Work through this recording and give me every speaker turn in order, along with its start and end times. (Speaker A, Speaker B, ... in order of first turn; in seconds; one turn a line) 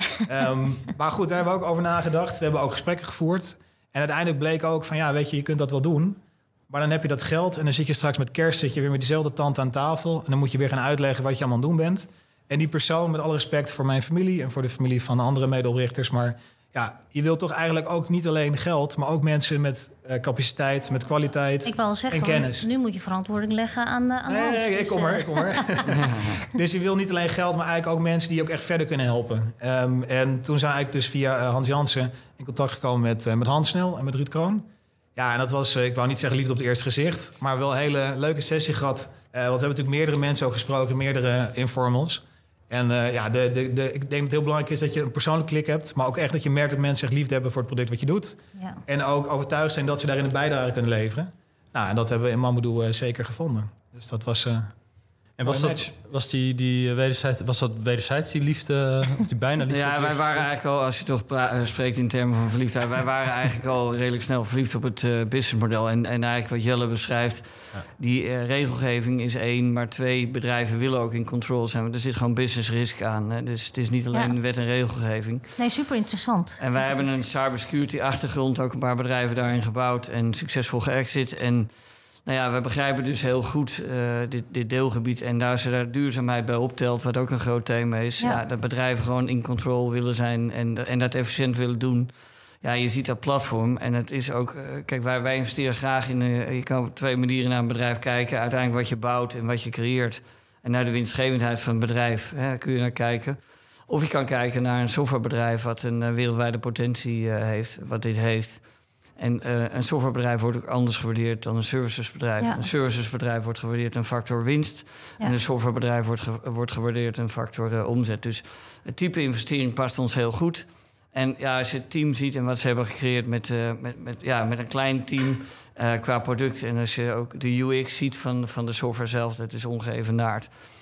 Speaker A: 0.2-22.7
Speaker B: 21.6-26.3
Speaker A: 24.2-54.7
Speaker C: 25.9-26.3
Speaker D: 55.4-60.5
Speaker A: 55.4-55.9
Speaker C: 59.7-75.6
Speaker B: 75.6-77.2
Speaker C: 76.6-81.7
Speaker C: 82.2-108.6
Speaker C: 109.2-130.5